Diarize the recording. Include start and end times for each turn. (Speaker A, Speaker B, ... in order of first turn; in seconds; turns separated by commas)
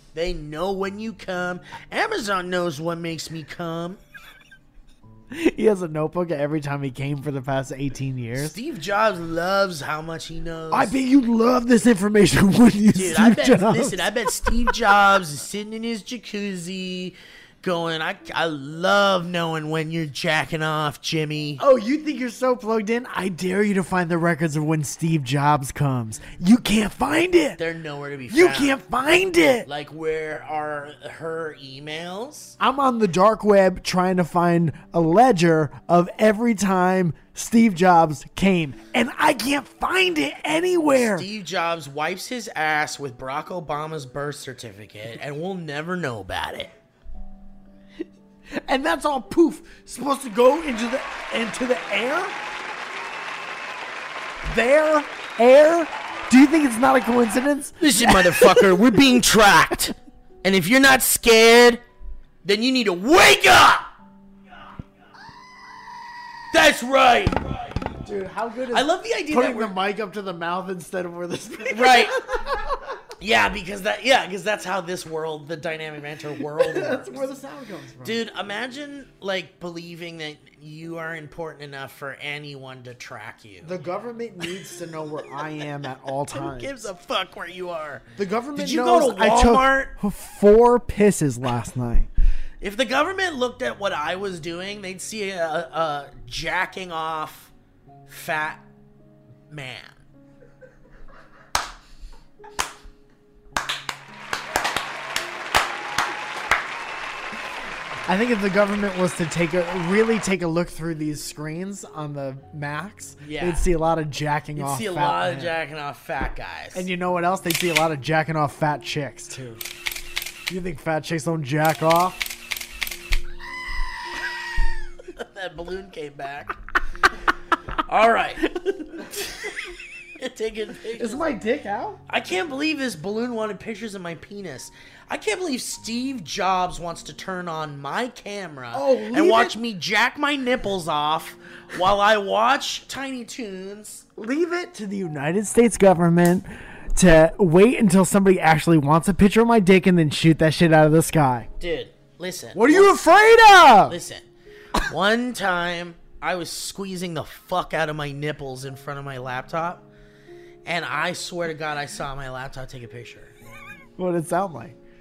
Speaker A: 0.1-4.0, Speaker B: 5.3-8.6, Speaker A: 8.3-10.9, Speaker B: 10.7-14.8, Speaker A: 12.9-21.6, Speaker B: 21.6-27.6, Speaker A: 27.6-28.8, Speaker B: 28.3-29.7, Speaker A: 29.6-32.5, Speaker B: 32.6-41.3, Speaker A: 40.9-46.7, Speaker B: 48.5-52.4, Speaker B: 54.4-59.1, Speaker A: 57.8-61.8, Speaker A: 62.4-63.9, Speaker A: 66.5-67.4, Speaker B: 68.0-72.9, Speaker A: 68.7-69.8, Speaker A: 71.7-72.2, Speaker A: 73.2-77.3, Speaker B: 76.5-78.2, Speaker A: 78.0-83.8, Speaker B: 83.6-86.9, Speaker A: 86.1-89.9, Speaker B: 88.2-92.1, Speaker A: 92.6-97.5, Speaker A: 98.1-98.6, Speaker A: 99.5-100.0, Speaker B: 108.0-115.6, Speaker A: 113.2-113.7, Speaker A: 114.5-116.9, Speaker B: 116.7-119.6, Speaker B: 120.5-122.3, Speaker A: 125.2-126.6, Speaker A: 127.9-129.6, Speaker A: 130.2-131.3, Speaker B: 130.9-132.0, Speaker A: 132.1-144.0, Speaker B: 138.7-139.6, Speaker B: 144.2-151.5, Speaker A: 151.6-153.1, Speaker B: 152.5-154.0, Speaker A: 153.8-154.2, Speaker A: 154.8-159.9, Speaker A: 160.6-163.3, Speaker B: 164.0-164.8